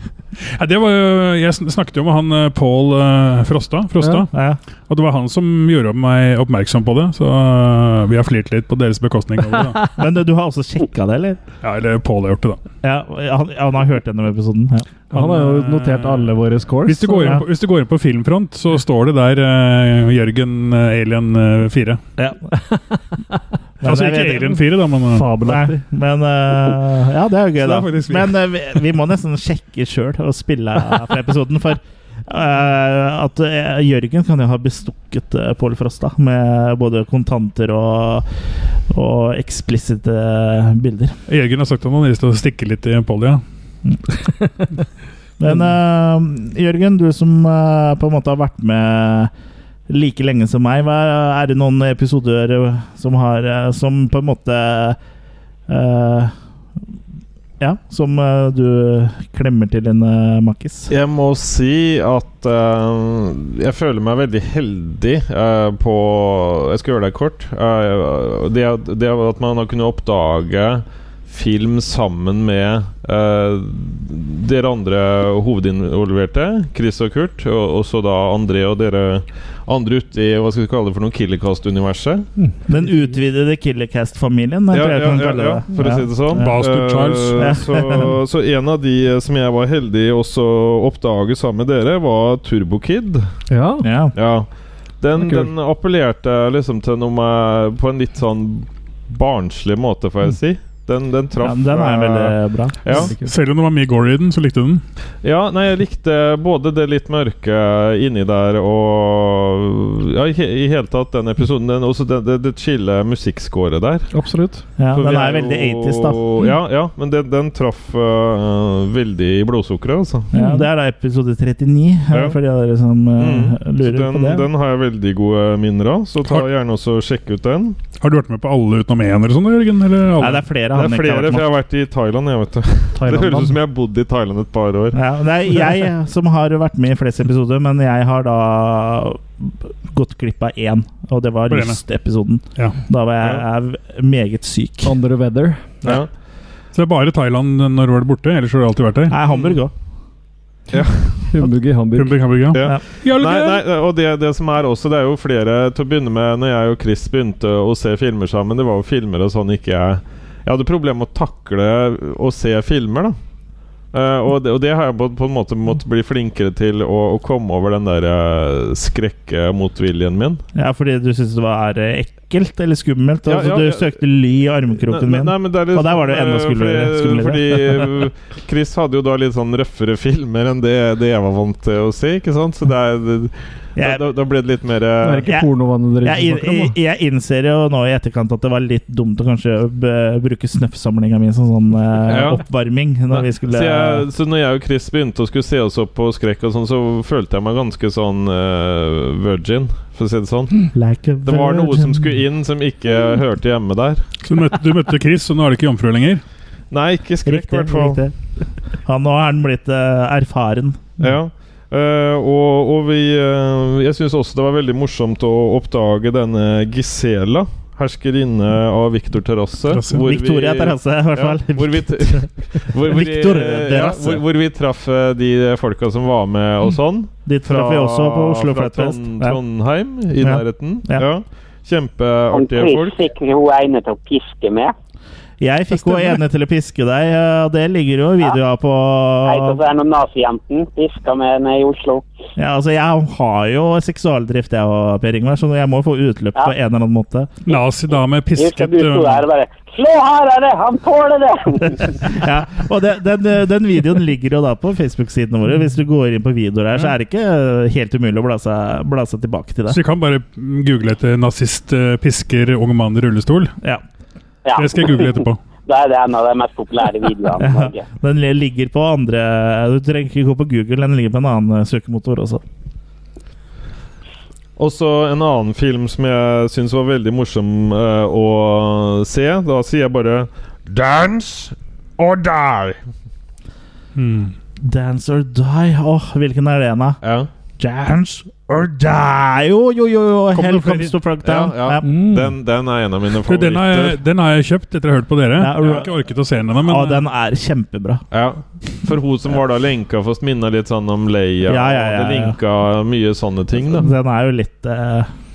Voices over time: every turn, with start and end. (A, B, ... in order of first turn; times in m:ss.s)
0:00.5-0:04.3 A
0:04.0-0:04.3 B
0:04.3-0:04.6 C
0:04.9-0:09.8 A
0:10.0-0:11.4 C
0:11.6-0:12.6 A
0:12.8-0:14.9 C
0:15.1-0:17.4 B
0:15.1-0:16.3 A
0:16.8-0:22.0 A
0:23.8-0:24.6 C
0:23.8-0:25.4 A
0:25.1-0:25.8 B
0:25.4-0:38.3 C
0:27.6-0:28.3 A
0:38.9-0:41.2 C
0:41.3-0:43.4 A
0:45.4-0:49.3 C
0:49.9-0:55.0 C
0:55.7-0:56.3 C
0:57.6-1:00.9 C
1:00.9-1:22.3 D
1:22.7-1:26.5 C
1:24.7-1:33.3 D
1:26.4-1:27.6 A
1:27.4-1:28.1 C
1:33.5-1:33.9 B
1:33.8-1:34.1 C
1:34.1-1:43.1 D
1:35.2-1:35.5 B
1:41.4-1:42.9 C
1:42.9-1:43.3 B
1:43.2-1:44.8 A
1:45.2-1:54.1 D
1:54.1-1:54.6 B
1:54.8-1:56.2 C
1:54.9-2:00.3 D
2:00.3-2:04.5 C
2:00.3-2:00.6 B
2:02.1-2:02.4 D
2:03.2-2:07.8 D
2:08.0-2:10.4 A
2:10.2-2:11.5 C
2:10.7-2:15.0 D
2:13.0-2:13.6 B
2:14.9-2:24.9 C
2:21.5-2:21.8 A
2:24.8-2:25.7 B
2:26.7-2:29.2 A
2:29.1-2:29.7 C
2:29.3-2:29.6 D
2:30.7-2:31.3 D
2:31.3-2:32.2 B
2:32.0-2:33.6 A
2:32.5-2:43.2 D
2:43.9-2:50.4 D
2:50.6-2:57.9 C
2:53.3-2:53.9 D
2:54.9-3:05.3 D
3:03.8-3:04.0 C
3:05.0-3:06.7 B
3:06.0-3:14.1 C
3:12.1-3:12.4 D
3:13.1-3:20.7 D
3:20.7-3:22.1 C
3:21.2-3:24.0 D
3:24.2-3:26.2 A
3:26.7-3:28.0 D
3:27.2-3:28.3 C
3:28.8-3:30.9 C
3:31.0-3:52.9 D
3:39.7-3:40.0 A
3:40.0-3:44.2 C
3:47.3-3:49.4 C
3:50.2-3:51.1 C
3:52.3-3:54.7 E
3:55.4-3:59.6 C
3:59.2-4:02.0 E
4:02.4-4:07.3 C
4:07.5-4:09.2 A
4:08.4-4:12.2 E
4:12.0-4:19.8 C
4:19.7-4:23.5 A
4:24.4-4:25.1 E
4:24.6-4:25.4 A
4:25.7-4:27.9 E
4:27.4-4:32.4 C
4:34.6-4:42.8 D
4:44.0-4:44.3 A
4:44.6-4:47.0 C
4:47.0-4:47.3 D
4:47.6-4:51.9 C
4:50.3-4:50.9 A
4:51.2-4:54.0 D
4:51.8-4:52.4 B
4:53.2-4:57.0 A
4:55.4-4:55.9 C
4:56.6-4:58.0 C
4:58.1-5:03.9 D
5:01.5-5:02.4 C
5:03.7-5:05.1 C